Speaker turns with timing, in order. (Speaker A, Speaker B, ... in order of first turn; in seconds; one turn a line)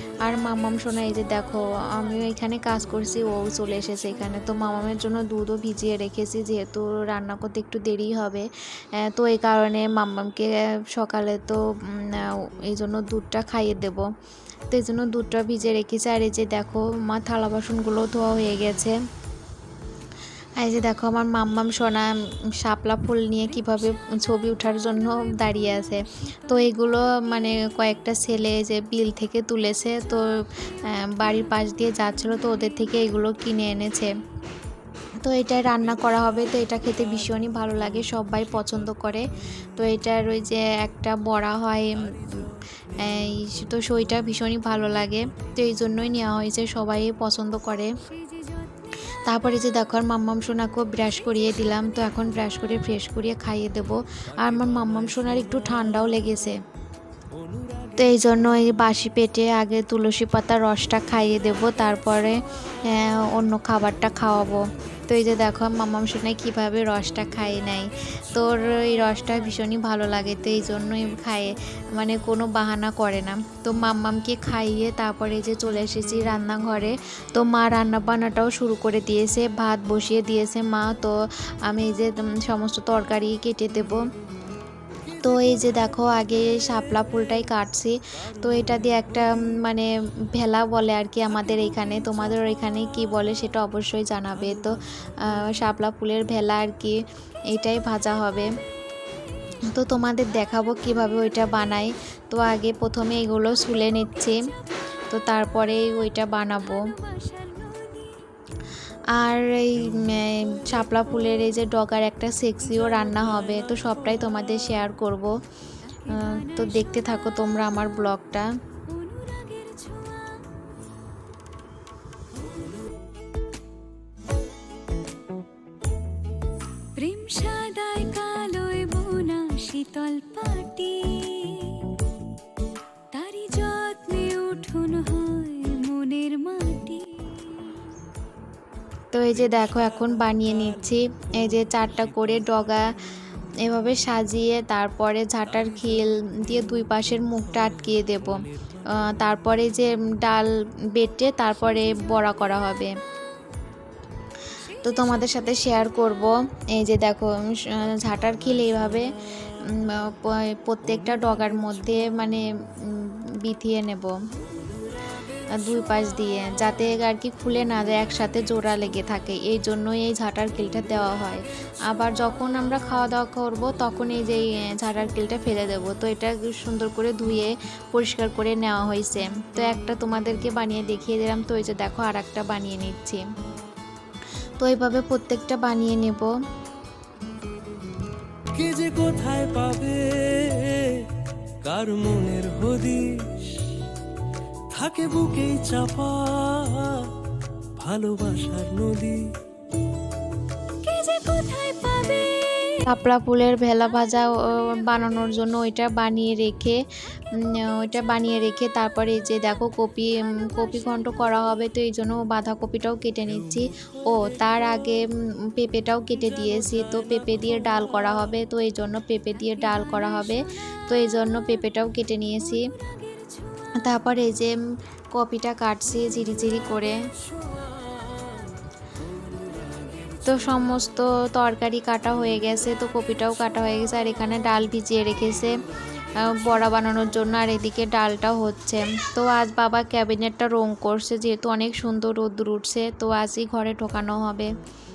Speaker A: 0.2-14.1
Speaker A: 14.7-19.0
Speaker A: 20.6-34.1
Speaker A: 35.2-48.0
Speaker A: 49.3-56.6
Speaker B: 57.5-57.9
Speaker A: 58.0-81.1
Speaker A: 81.7-84.0
Speaker A: 85.2-98.5
Speaker A: 99.7-104.5
Speaker A: 105.1-106.9
Speaker C: 107.0-108.2
Speaker A: 109.1-115.3
Speaker A: 116.1-118.5
Speaker C: 118.9-120.5
Speaker C: 127.0-132.0
Speaker C: 133.1-137.7
Speaker A: 139.1-143.0
Speaker A: 143.6-152.9
Speaker A: 154.8-164.2
Speaker A: 165.5-183.2
Speaker A: 184.6-186.3
Speaker B: 188.5-191.1
Speaker B: 191.6-193.7
Speaker B: 194.7-197.1
Speaker B: 197.8-199.3
Speaker C: 200.8-202.8
Speaker A: 202.8-206.8
Speaker A: 207.3-222.7
Speaker C: 222.8-223.7
Speaker A: 223.8-224.6
Speaker A: 225.1-227.0
Speaker A: 230.2-235.6
Speaker A: 236.2-244.5